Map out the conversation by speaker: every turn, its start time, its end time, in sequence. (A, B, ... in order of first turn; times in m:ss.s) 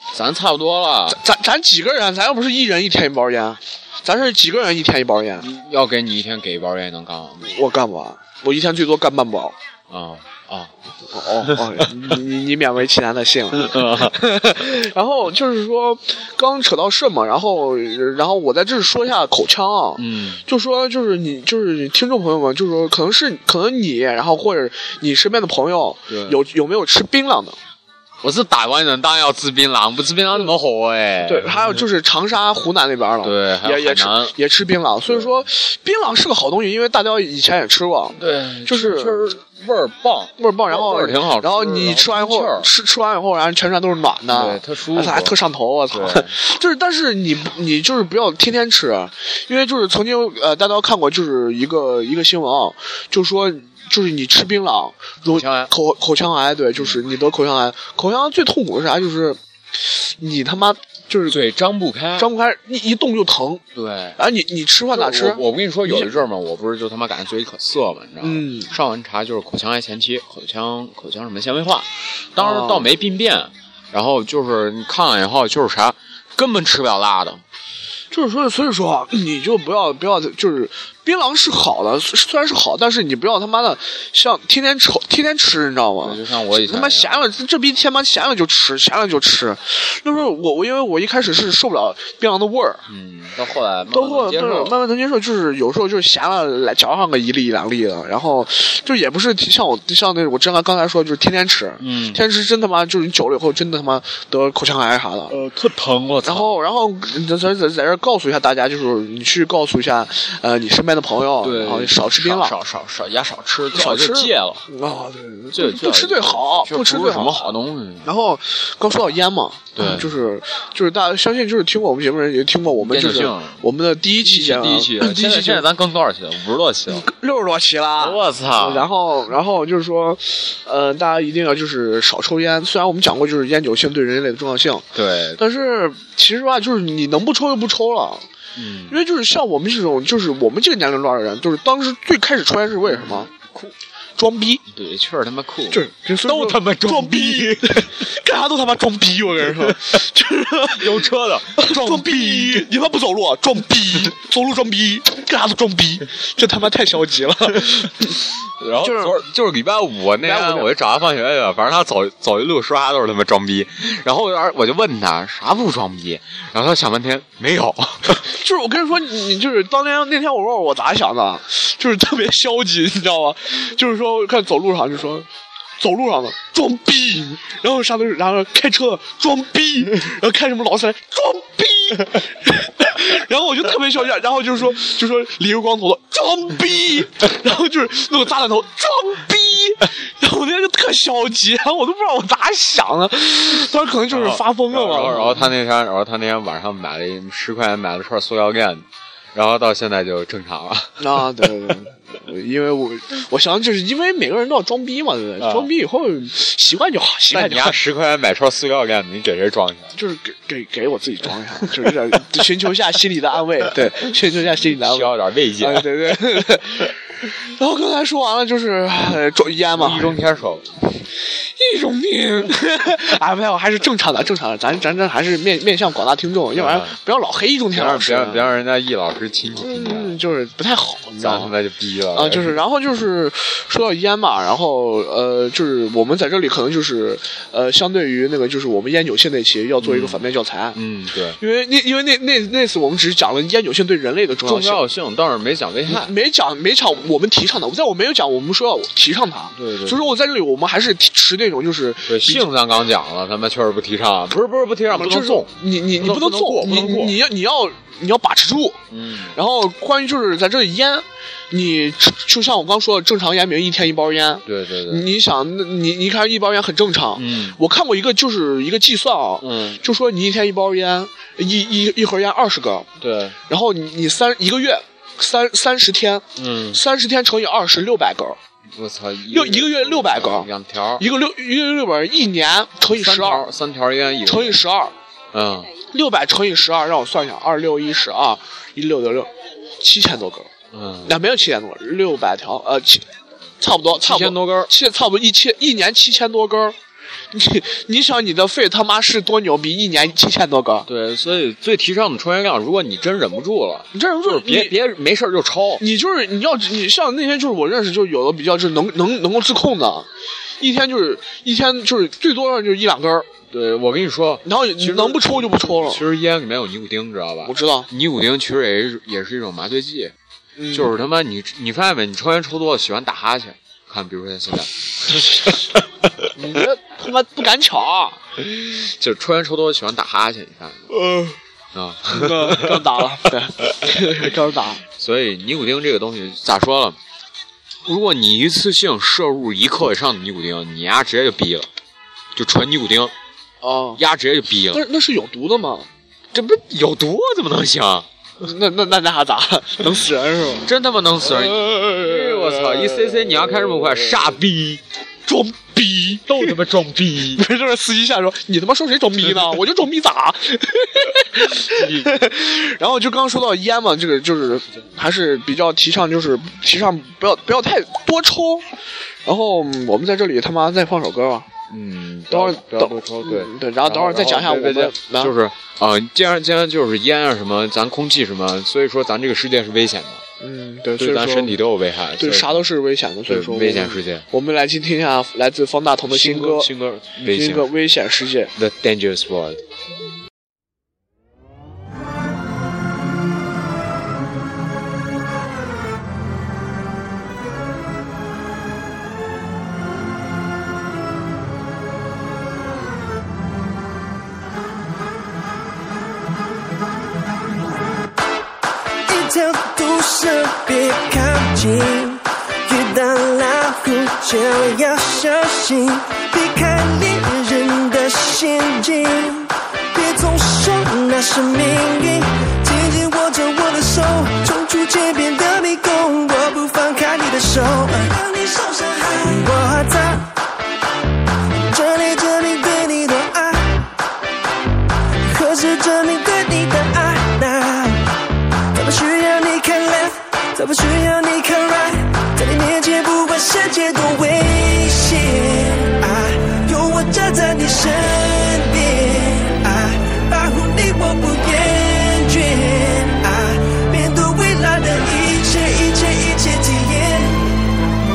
0:00.1-0:01.2 A
0:01.1-0:05.4 B
0:05.4-0:07.5 A
0:07.4-0:09.5 B
0:09.9-0:10.7 A
0:11.1-0:27.6 B
0:11.4-0:11.8 A
0:13.5-0:14.2 A
0:20.0-0:20.4 A
0:26.1-0:26.4 A
0:28.2-0:31.8 A
0:31.2-0:39.3 B
0:33.2-0:34.3 A
0:38.2-0:42.7 A
0:40.4-1:01.4 B
0:44.3-0:45.4 A
0:45.9-0:46.3 A
0:55.3-0:55.7 A
0:56.8-0:57.0 A
1:01.3-1:02.3 A
1:02.2-1:03.6 B
1:03.7-1:04.2 A
1:04.2-1:06.1 B
1:04.9-1:17.4 A
1:08.2-1:08.7 B
1:12.4-1:12.9 B
1:18.1-1:32.8 B
1:26.0-1:27.3 A
1:32.9-1:34.8 A
1:33.9-1:45.4 B
1:41.8-1:42.2 A
1:45.3-1:46.5 A
1:46.2-1:52.6 B
1:51.4-1:54.6 A
1:53.7-1:57.5 B
1:55.5-1:58.1 A
1:58.0-2:05.6 B
1:59.8-2:00.1 A
2:02.8-2:03.6 A
2:04.2-2:07.1 A
2:06.9-2:14.8 B
2:08.0-2:08.9 A
2:14.9-2:15.4 A
2:15.4-2:18.2 B
2:18.6-2:19.0 A
2:18.9-2:23.3 B
2:22.9-2:23.7 A
2:24.2-2:24.6 B
2:24.7-2:28.0 A
2:25.7-2:31.0 B
2:30.8-2:32.7 A
2:31.6-2:38.2 B
2:38.6-2:48.2 A
2:38.8-2:39.2 B
2:40.2-2:40.7 B
2:48.2-2:55.3 B
2:55.8-3:15.4 B
3:14.1-3:21.2 A
3:21.0-3:27.8 B
3:25.4-3:25.7 A
3:27.3-3:29.9 A
3:30.0-3:40.2 B
3:34.6-3:36.4 A
3:39.7-3:40.7 A
3:41.2-3:48.5 B
3:46.5-3:47.0 A
3:47.7-3:50.2 A
3:49.6-3:51.5 B
3:51.2-3:52.6 A
3:52.1-4:00.8 B
3:59.8-4:01.4 A
4:01.4-4:04.8 B
4:04.4-4:06.1 A
4:05.9-4:12.5 B
4:09.5-4:10.1 A
4:12.1-4:17.2 A
4:14.9-4:18.8 B
4:18.9-4:19.4 A
4:19.3-4:32.9 B
4:24.4-4:25.1 A
4:27.1-4:27.6 A
4:29.4-4:29.8 A
4:33.0-4:33.4 A
4:33.5-4:38.4 B
4:36.4-4:36.8 A
4:38.7-4:41.0 A
4:39.3-4:43.4 B
4:42.9-4:44.6 A
4:44.2-4:44.9 B
4:45.3-4:45.7 A
4:45.9-4:50.5 B
4:50.7-4:51.1 A
4:51.0-4:53.0 B
4:53.6-4:56.8 B
4:53.9-4:54.7 A
4:57.3-5:00.9 B
5:00.9-5:05.8 A
5:03.9-5:04.8 B
5:05.8-5:10.1 B
5:10.6-5:13.3 B
5:13.5-5:20.1 A
5:14.4-5:16.0 B
5:17.4-5:17.9 B
5:20.6-5:20.9 B
5:20.7-5:25.8 A
5:26.3-5:28.2 B
5:28.5-5:30.9 A
5:30.9-5:31.3 B
5:31.7-5:32.9 A
5:32.1-5:34.8 B
5:35.0-5:37.0 A
5:37.8-5:41.7 A
5:42.3-5:43.1 A
5:43.6-5:44.0 B
5:44.0-5:44.8 A
5:44.7-5:45.9 B
5:46.3-5:48.0 A
5:48.4-5:50.7 B
5:50.6-5:54.8 A
5:51.3-5:53.1 B
5:55.3-5:56.6 B
5:56.2-5:57.4 A
5:57.3-6:08.7 B
6:01.6-6:02.2 A
6:09.2-6:11.4 B
6:11.7-6:20.2 A
6:12.3-6:15.3 B
6:20.4-6:21.6 B
6:21.0-6:22.7 A
6:22.2-6:28.5 B
6:23.2-6:24.2 A
6:26.1-6:27.7 A
6:28.6-6:29.6 A
6:49.1-7:10.3 C
7:11.7-7:13.9 C
7:15.3-7:18.1 C
7:18.7-7:37.5 C